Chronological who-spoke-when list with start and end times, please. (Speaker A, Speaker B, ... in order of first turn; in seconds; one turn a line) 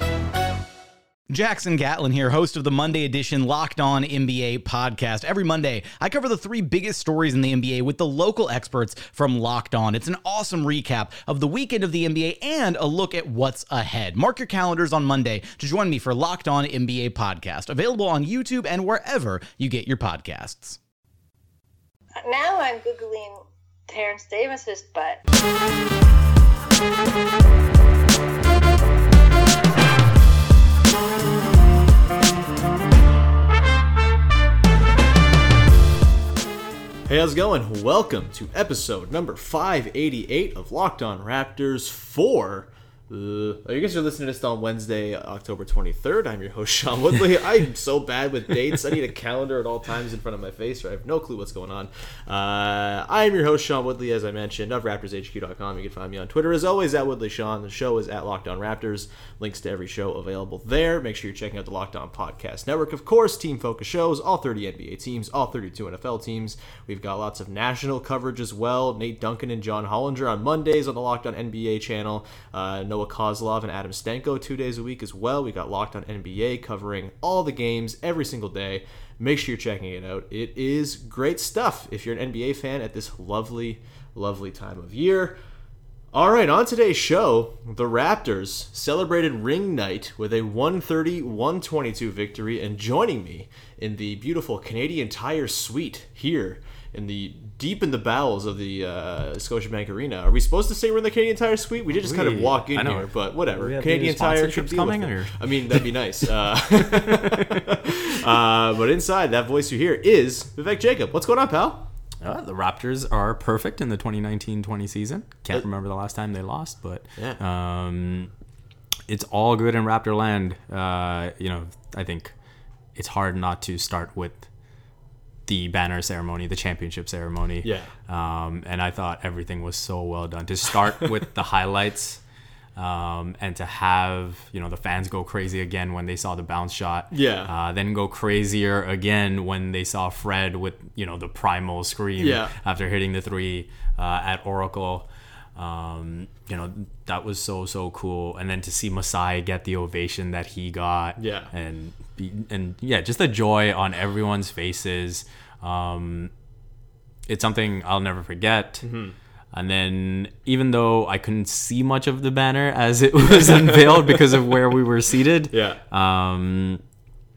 Speaker A: 1.3-20.8
Speaker B: 22.2-25.2
Speaker C: 37.1-85.4
Speaker C: 86.1-111.9
Speaker D: 102.0-105.9
Speaker D: 107.1-107.4
Speaker D: 112.2-118.3
Speaker D: 119.1-122.3
Speaker D: 123.0-124.5
Speaker D: 125.5-132.2
Speaker C: 127.6-127.9
Speaker D: 132.8-156.3
Speaker C: 137.1-137.5
Speaker C: 142.2-142.5
Speaker C: 151.2-151.5
Speaker D: 157.3-158.9
Speaker C: 158.8-159.2
Speaker D: 159.5-166.8
Speaker C: 163.4-164.2
Speaker C: 165.5-165.8